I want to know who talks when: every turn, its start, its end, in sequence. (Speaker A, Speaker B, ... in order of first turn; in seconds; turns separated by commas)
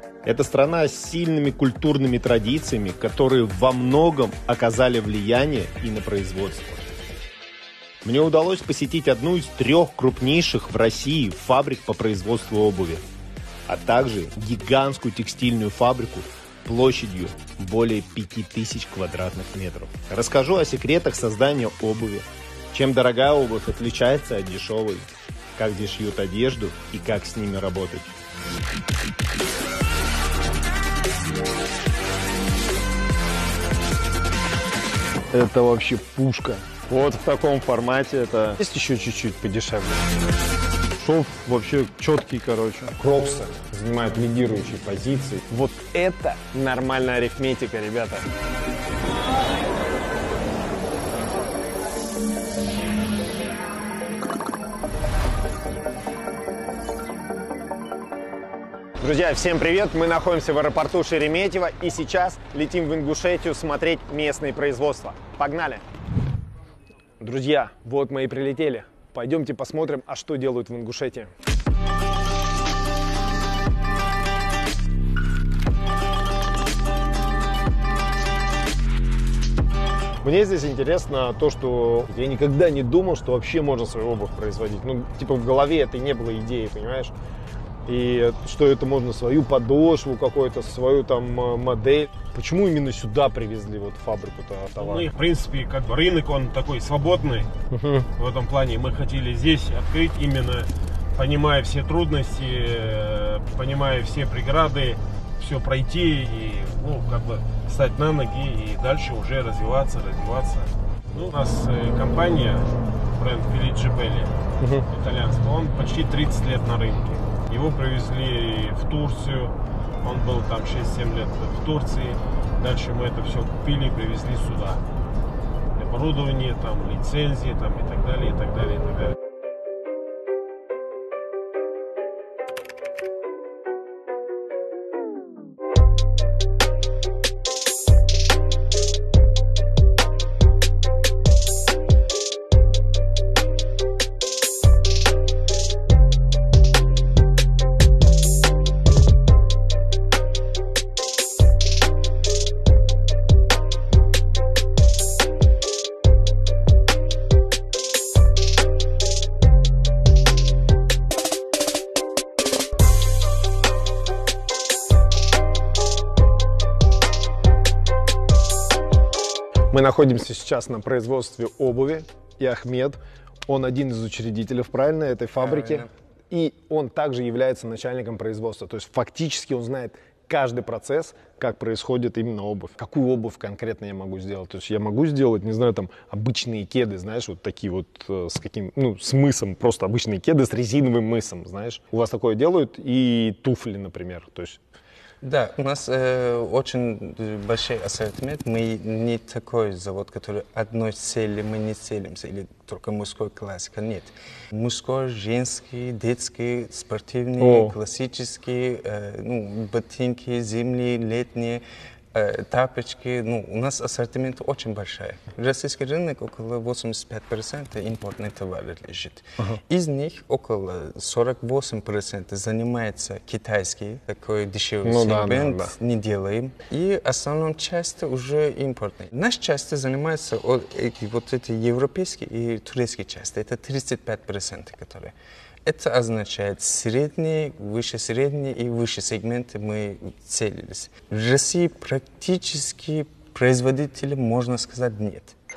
Speaker A: 0.2-6.8, Speaker A: 8.0-13.0, Speaker A: 13.7-28.1, Speaker A: 35.3-40.0, Speaker A: 41.0-48.3, Speaker A: 59.0-65.8, Speaker A: 67.2-71.3, Speaker A: 80.2-87.1, Speaker A: 87.9-95.1, Speaker B: 94.8-97.5, Speaker A: 97.7-98.1, Speaker B: 98.2-114.3, Speaker A: 114.6-114.9, Speaker B: 114.9-124.8, Speaker B: 125.7-129.1, Speaker A: 169.7-194.6, Speaker C: 175.4-175.9, Speaker C: 195.2-235.1, Speaker A: 207.4-207.8, Speaker A: 224.8-225.7, Speaker C: 235.6-245.3